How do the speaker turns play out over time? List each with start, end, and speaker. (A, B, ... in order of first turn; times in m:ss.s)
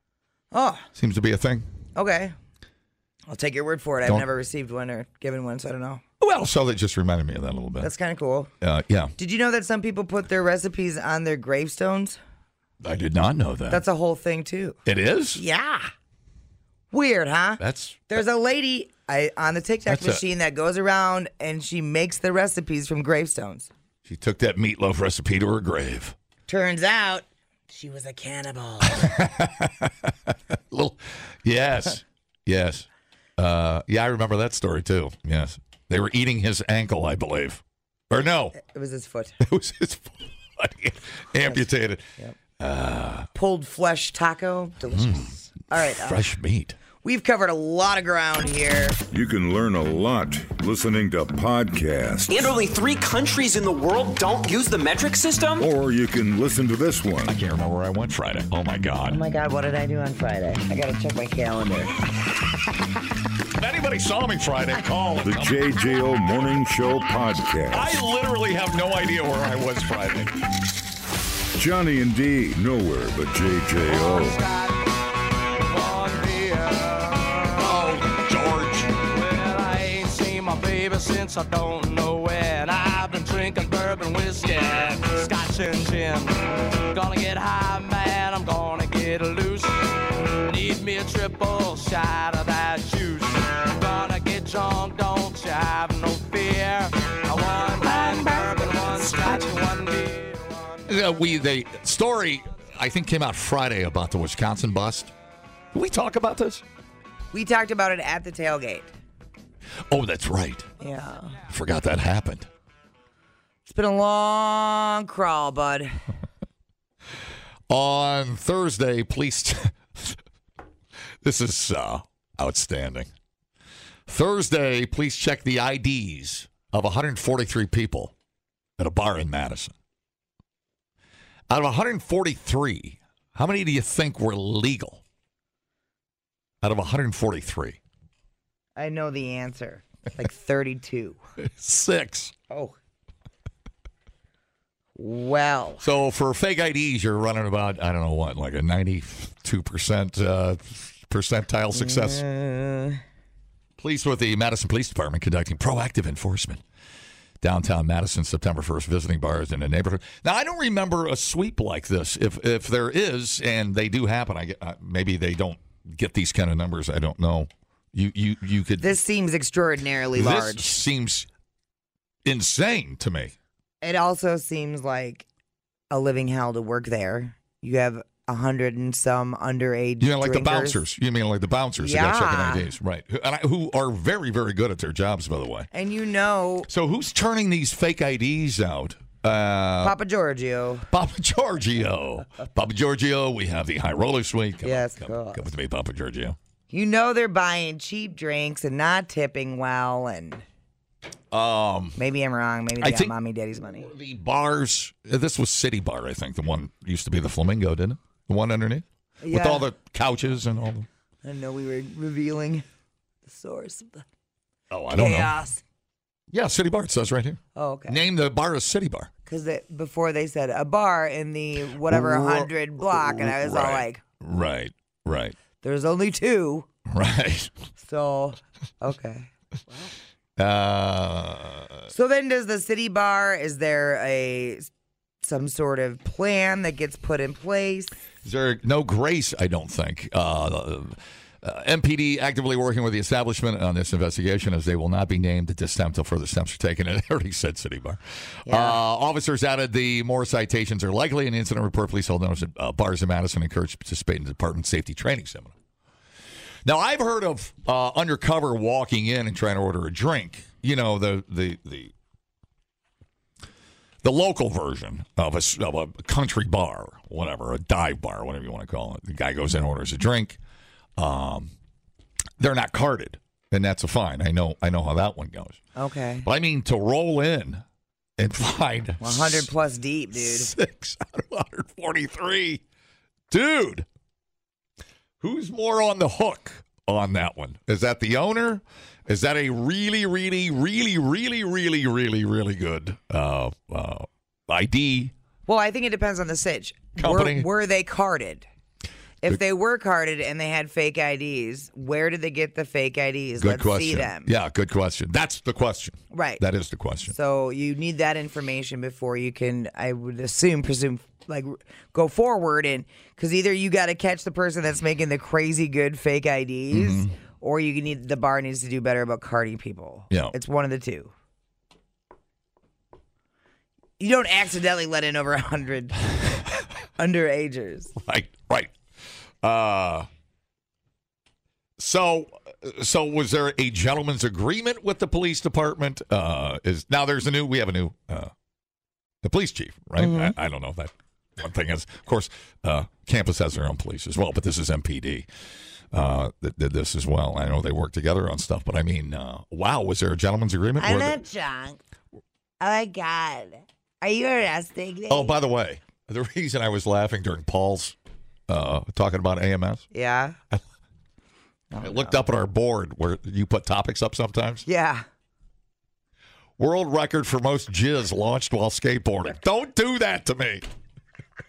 0:00.5-0:00.9 A
0:01.0-0:01.7 B
0:01.9-0:02.3 A
0:03.3-0:06.0 A
0:06.2-0:07.9 B
0:07.8-0:08.5 A
0:08.6-0:09.1 B
0:09.2-0:12.2 A
0:12.8-0:13.8 B
0:13.7-0:14.8 A
0:14.8-0:15.4 B
0:15.3-0:15.9 A
0:16.9-0:23.7 A
0:17.6-0:18.1 B
0:19.8-0:20.2 B
0:24.0-0:26.1 B
0:26.5-0:29.0 A
0:28.9-0:32.8 B
0:33.4-0:38.6 B
0:38.5-0:39.4 A
0:39.4-0:42.0 B
0:42.6-0:43.3 B
0:43.3-0:46.2 A
0:44.9-0:45.3 B
0:45.9-0:46.8 B
0:47.0-0:49.0 A
0:49.1-0:52.5 C
0:52.3-0:55.7 D
0:55.6-0:57.4 C
0:57.2-0:59.2 B
0:59.1-1:01.9 A
1:03.5-1:05.7 B
1:05.2-1:07.9 C
1:07.7-1:10.4 B
1:11.5-1:14.4 C
1:13.8-1:17.7 E
1:17.6-1:19.0 B
1:18.9-1:40.9 E
1:40.9-1:45.1 B
1:45.7-1:46.6 B
1:47.3-1:48.9 A
1:49.9-1:50.7 B
1:50.8-1:51.4 A
1:51.4-1:52.5 B
1:53.6-1:55.9 A
1:57.7-2:00.2 B
2:01.2-2:03.1 B
2:04.1-2:08.1 B
2:08.8-2:09.7 B
2:11.5-2:15.0 B
2:16.6-2:17.8 B
2:18.8-2:21.2 A
2:21.4-2:22.3 B
2:22.5-2:22.8 A
2:25.0-2:25.8 A
2:25.8-2:32.2 B
2:31.7-2:33.0 A
2:33.8-2:36.6 B
2:37.4-2:49.0 B
2:48.8-2:50.7 A
2:50.2-2:51.3 B
2:52.2-2:53.3 B
2:53.8-2:55.2 A
2:55.9-3:00.8 A
3:00.0-3:05.7 B
3:01.8-3:02.7 A
3:05.7-3:06.7 A
3:06.7-3:10.0 B
3:09.8-3:10.9 A
3:10.9-3:16.4 B
3:14.6-3:15.4 A
3:16.7-3:20.4 A
3:21.3-3:22.0 B
3:22.0-3:23.9 A
3:22.8-3:23.1 B
3:23.7-3:30.9 B
3:29.2-3:29.6 A
3:31.2-3:32.6 A
3:33.2-3:34.0 A
3:34.7-3:35.4 B
3:34.9-3:35.6 A
3:36.3-3:39.1 B
3:37.5-3:38.0 A
3:39.2-3:44.0 A
3:41.8-3:45.4 B
3:45.6-3:46.7 A
3:46.9-3:47.5 B
3:47.8-3:49.9 A
3:50.4-3:51.9 B
3:51.9-3:54.7 A
3:55.2-3:57.9 A
3:58.2-4:15.5 B
4:08.5-4:08.8 A
4:16.6-4:21.9 B
4:24.0-4:30.4 B
4:31.0-4:31.5 B
4:32.4-4:35.6 B
4:35.8-4:36.3 A
4:36.2-4:37.6 B
4:38.2-4:39.5 B
4:39.0-4:40.5 A
4:40.2-4:42.6 B
4:43.3-4:43.8 B
4:45.2-4:55.1 B
4:55.4-4:58.4 A
4:57.0-4:57.5 B
4:59.2-5:04.3 A
5:03.4-5:07.1 B
5:06.1-5:06.4 A
5:07.1-5:21.1 A
5:16.7-5:17.1 B
5:24.0-5:26.1 A
5:27.0-5:27.9 A
5:28.0-5:28.7 B
5:29.4-5:30.1 B
5:31.8-5:38.3 B
5:39.2-5:45.3 B
5:40.0-5:40.3 A
5:45.9-5:51.2 B
5:50.8-5:51.8 A
5:52.6-5:55.3 A
5:55.1-5:58.0 B
5:58.5-5:59.8 B
5:59.9-6:00.4 A
6:01.7-6:02.2 A
6:01.8-6:04.6 B
6:04.6-6:05.0 A
6:06.6-6:10.6 B